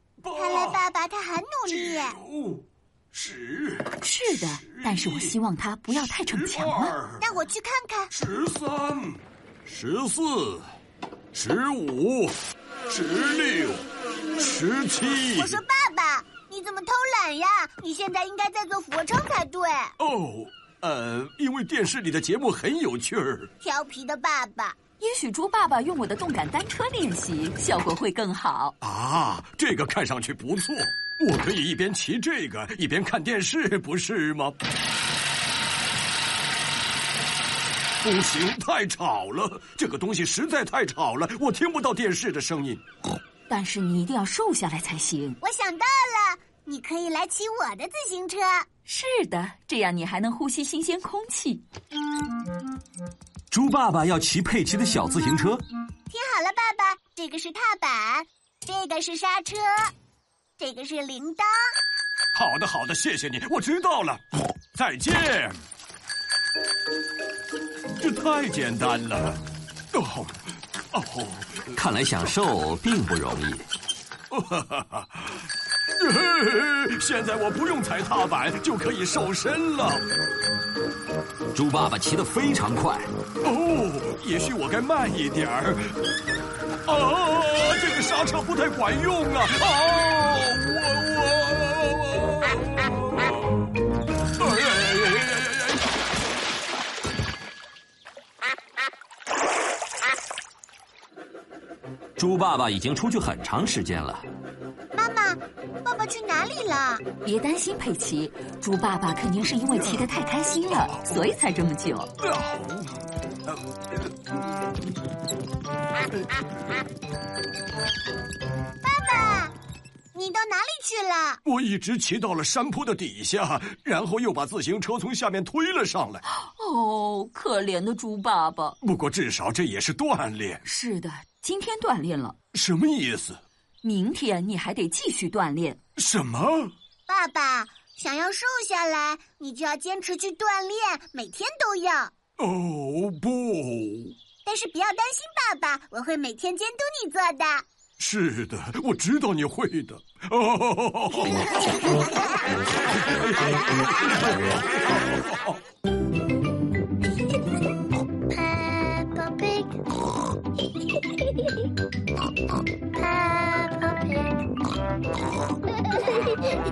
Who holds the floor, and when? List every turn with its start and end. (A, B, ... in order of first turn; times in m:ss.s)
0:00.2-0:00.8 A
0:00.3-0:02.2 B
0:01.8-0:02.6 A
0:03.1-0:05.4 A
0:04.0-0:07.0 C
0:06.0-0:07.2 A
0:07.1-0:08.1 B
0:08.1-0:10.7 A
0:11.3-0:12.4 A
0:12.9-0:15.6 A
0:15.3-0:19.9 B
0:20.0-0:23.5 A
0:23.6-0:24.8 B
0:25.0-0:28.7 C
0:28.8-0:34.6 A
0:38.0-0:42.8 A
0:43.5-0:45.4 C
0:45.4-0:48.7 B
0:48.9-0:51.6 C
0:53.5-0:55.6 D
0:56.1-0:59.9 B
1:00.6-1:01.5 B
1:02.4-1:04.2 A
1:04.8-1:05.6 A
1:08.0-1:10.4 A
1:10.9-1:11.7 A
1:11.7-1:13.7 D
1:14.3-1:15.4 A
1:16.0-1:20.1 A
1:21.5-1:23.1 D
1:23.4-1:26.0 A
1:26.9-1:33.5 A
1:34.4-1:35.6 A
1:42.2-1:44.2 D
1:44.9-1:47.1 B
1:47.2-1:52.1 C
1:52.2-1:52.9 A
1:58.8-1:59.5 B
2:00.1-2:01.4 B
2:01.5-2:06.2 A
2:06.4-2:08.8 C
2:08.8-2:10.6 A
2:10.7-2:12.4 C
2:12.5-2:13.4 A
2:13.8-2:15.8 C
2:16.0-2:16.7 A
2:17.1-2:22.1 B
2:22.4-2:24.2 A
2:24.4-2:27.6 B
2:28.0-2:31.9 A
2:38.4-2:39.8 B
2:43.0-2:44.4 B
2:45.9-2:46.4 B